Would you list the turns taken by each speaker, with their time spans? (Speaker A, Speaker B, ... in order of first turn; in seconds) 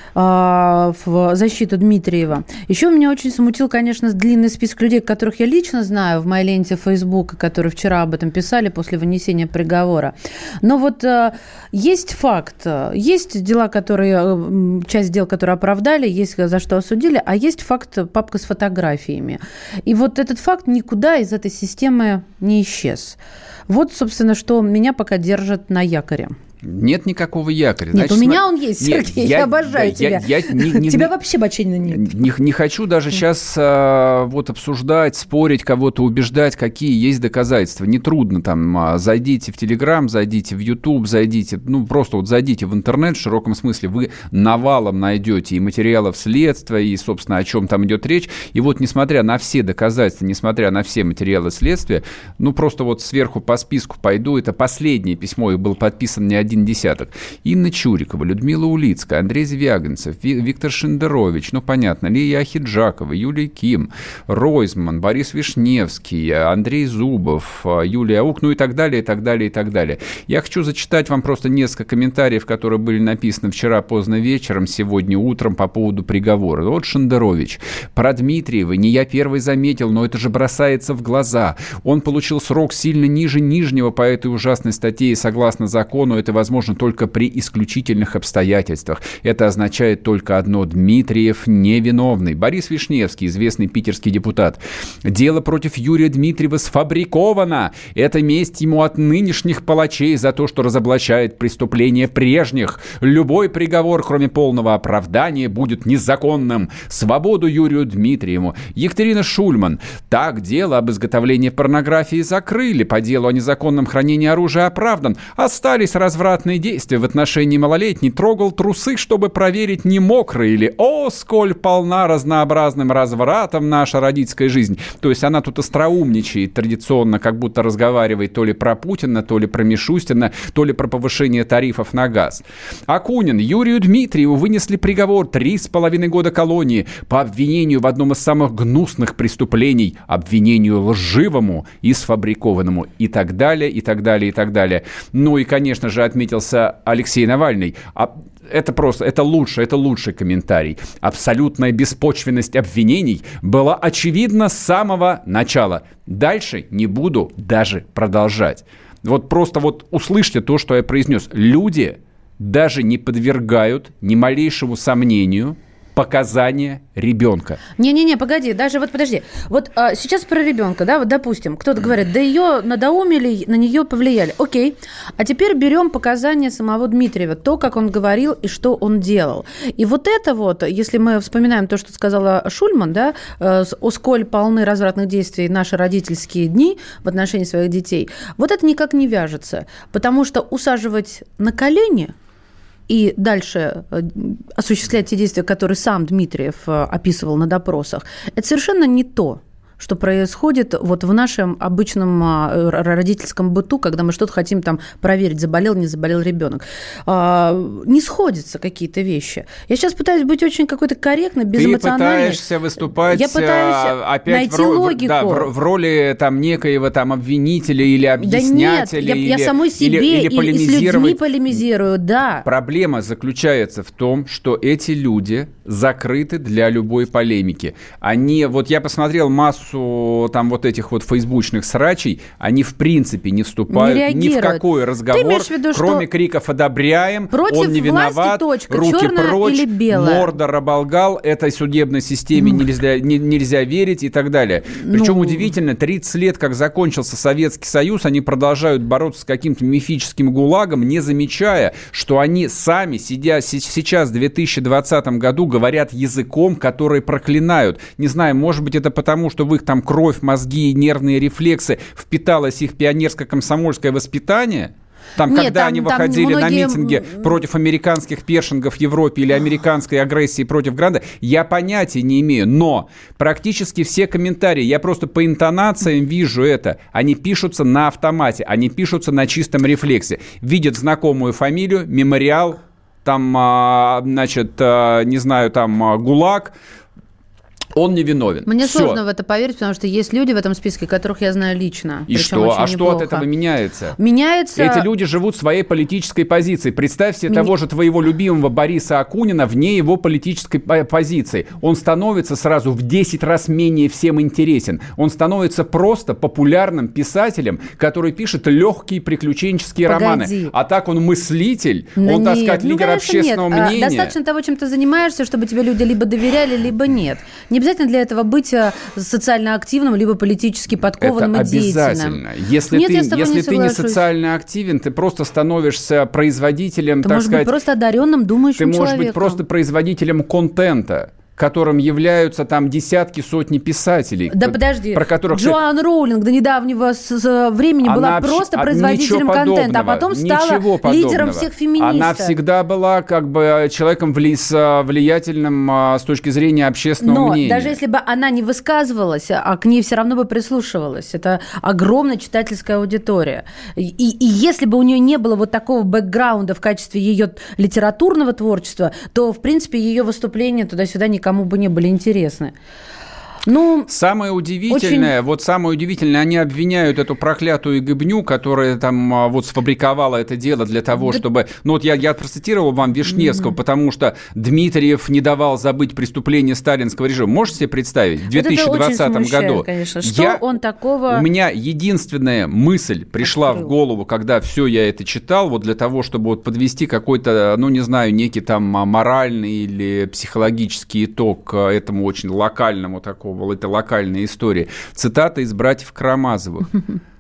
Speaker A: 0.1-26.4, 27.9-32.1, 167.8-192.1, 192.9-212.4, 213.1-215.5, 218.2-222.4, 233.7-236.1, 237.3-240.3, 244.9-245.5, 265.3-267.3, 288.5-293.3, 294.0-294.9, 309.9-310.5, 312.0-322.2, 322.7-324.1, 327.0-329.4, 334.3-342.4, 347.0-362.6, 363.5-363.9, 364.7-365.1, 378.3-381.3, 383.2-383.7
Speaker B: 26.6-31.1, 31.9-167.6, 211.5-221.5, 222.4-286.6, 287.7-289.0, 292.1-294.0, 294.6-314.2, 321.0-327.5, 328.6-335.6, 337.8-347.8, 363.9-380.4, 381.1-396.8